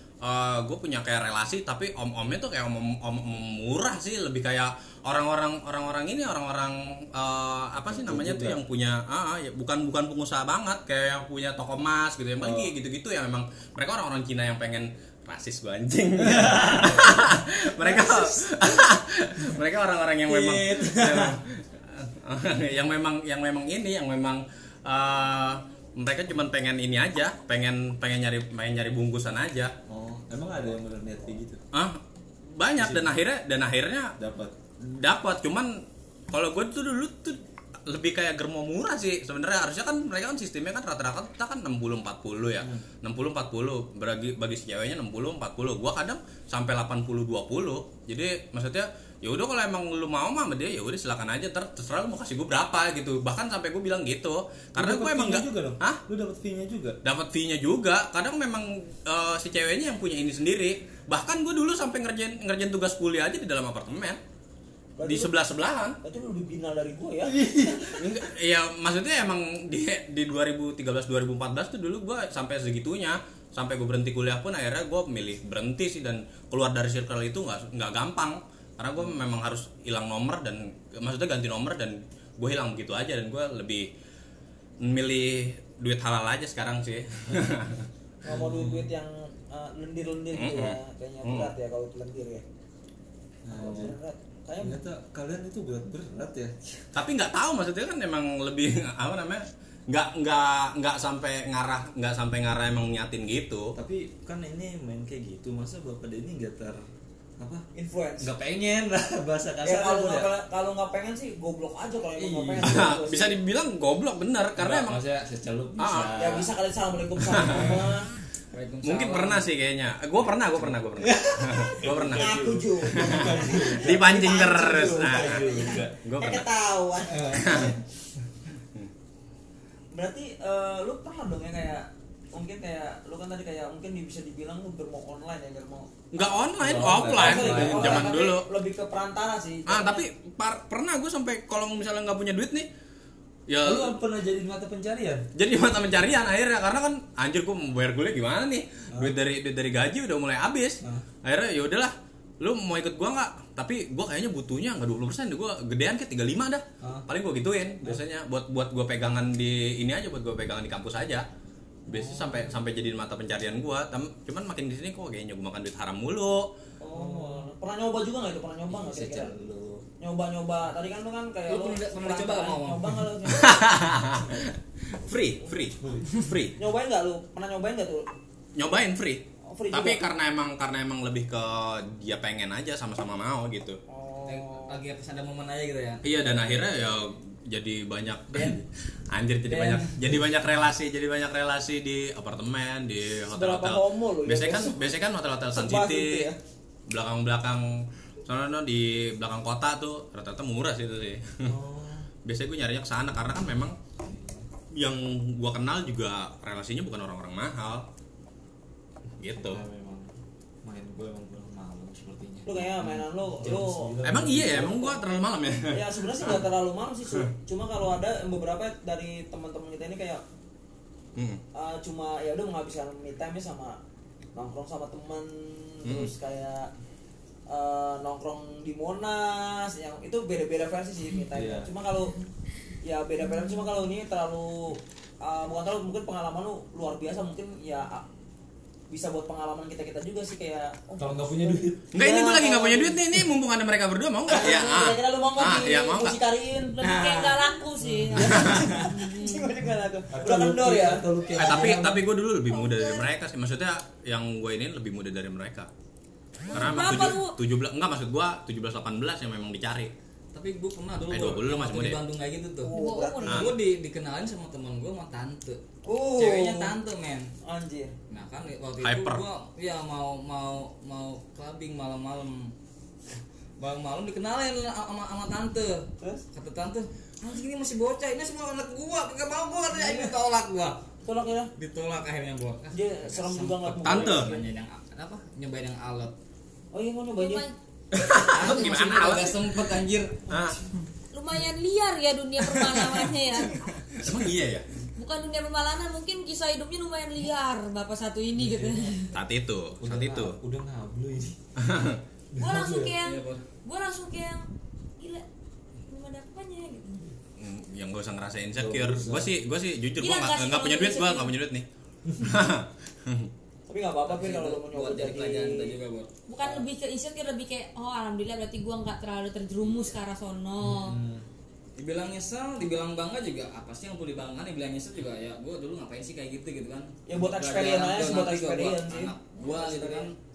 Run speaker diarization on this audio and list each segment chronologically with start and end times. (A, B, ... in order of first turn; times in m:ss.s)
0:00.2-0:29.7 A
0:07.9-0:08.6 B
0:12.4-0:12.7 B
0:16.2-0:17.1 B
0:17.9-0:18.3 C
0:20.3-0:21.4 C
0:29.9-0:31.6 B
0:31.7-0:34.1 A
0:32.8-0:33.1 B
0:34.2-0:34.5 B
0:34.8-0:56.0 A
0:54.8-0:57.0 B
0:57.0-1:04.2 A
1:05.0-1:05.3 D
1:05.0-1:06.0 A
1:06.0-1:07.8 D
1:07.2-1:08.2 B
1:08.0-1:23.9 A
1:24.8-1:27.9 A
1:28.2-1:32.4 D
1:28.3-1:28.9 B
1:30.3-1:31.5 A
1:33.4-1:34.0 B
1:33.6-1:34.8 D
1:34.6-1:36.5 B
1:36.9-1:43.7 A
1:43.8-1:46.8 B
1:47.4-1:47.6 B
1:47.7-1:48.3 D
1:48.2-1:50.3 B
1:49.6-1:53.4 D
1:52.2-1:53.1 B
1:52.6-1:55.0 A
1:54.6-1:56.5 B
1:55.8-1:56.2 A
1:56.2-1:58.1 D
1:57.3-1:57.9 B
1:58.5-1:59.5 C
1:58.8-2:06.5 A
2:00.2-2:06.0 B
2:02.0-2:07.7 D
2:07.1-2:07.8 B
2:07.4-2:07.7 A
2:09.9-2:20.0 D
2:16.1-2:18.5 A
2:16.6-2:18.2 B
2:19.7-2:22.7 A
2:23.5-2:24.0 A
2:23.6-2:25.3 B
2:25.4-2:41.3 A
2:41.9-2:42.6 B
2:41.9-2:46.5 A
2:46.8-2:49.3 D
2:46.9-2:47.5 B
2:48.7-2:49.8 B
2:50.0-2:53.7 D
2:51.5-2:53.0 C
2:53.3-2:56.6 A
2:55.8-2:56.2 B
2:56.6-2:58.1 D
2:58.6-3:03.8 A
2:59.5-3:00.0 D
3:03.9-3:04.7 D
3:04.3-3:06.0 C
3:06.0-3:16.3 A
3:09.5-3:09.9 D
3:13.3-3:14.9 D
3:15.5-3:16.4 D
3:16.9-3:17.7 A
3:18.3-3:21.5 A
3:21.4-3:22.1 B
3:22.2-3:23.8 A
3:24.0-3:24.5 B
3:24.7-3:27.8 A
3:29.2-3:29.6 A
3:29.3-3:30.1 B
3:30.6-3:35.0 B
3:32.5-3:33.9 D
3:34.0-3:36.4 A
3:35.7-3:40.2 D
3:41.2-3:41.4 A
3:41.5-3:43.8 D
3:44.4-3:46.7 D
3:45.8-3:46.1 A
3:47.5-3:52.2 D
3:51.3-3:51.7 B
3:52.8-3:58.1 D
3:58.9-4:03.0 D
4:01.0-4:01.9 B
4:01.9-4:06.2 A
4:04.3-4:07.1 D
4:06.8-4:07.4 C
4:06.8-4:09.4 E
4:07.8-4:08.3 B
4:08.2-4:11.0 D
4:08.3-4:08.7 A
4:08.4-4:08.9 C
4:10.1-4:12.1 B
4:11.4-4:15.7 A
4:12.5-4:13.1 E
4:16.5-4:17.4 E
4:16.5-4:19.9 A
4:20.3-4:22.7 C
4:21.1-4:22.0 A
4:22.6-4:23.5 D
4:22.7-4:23.5 E
4:23.2-4:25.6 C
4:23.3-4:23.5 A
4:25.8-4:26.7 D
4:26.1-4:27.3 C
4:27.4-4:27.9 D
4:28.1-4:32.5 C
4:28.8-4:29.2 A
4:33.6-4:40.8 C
4:39.7-4:40.1 D
4:41.0-4:41.5 D
4:41.6-4:46.1 C
4:42.7-4:44.4 D
4:43.8-4:44.3 A
4:46.7-4:47.4 D
4:47.2-4:47.6 E
4:47.9-4:49.6 A
4:48.3-4:50.2 C
4:48.7-4:49.1 E
4:50.3-4:50.6 A
4:51.1-4:53.6 E
4:52.4-4:53.9 C
4:54.0-4:54.7 A
4:55.0-4:59.1 E
4:58.4-4:58.9 B
4:59.1-5:00.4 A
4:59.8-5:01.4 B
5:01.6-5:02.0 A
5:02.3-5:03.0 B
5:02.4-5:04.4 E
5:03.0-5:03.4 C
5:05.0-5:05.2 E
5:05.9-5:07.1 E
5:07.4-5:11.7 A
5:08.6-5:09.3 B
5:10.0-5:11.3 E
5:12.2-5:13.3 A
5:13.7-5:15.8 D
5:14.1-5:16.1 C
5:16.3-5:21.0 E
5:20.6-5:21.2 B
5:21.8-5:30.2 C
5:27.1-5:30.1 D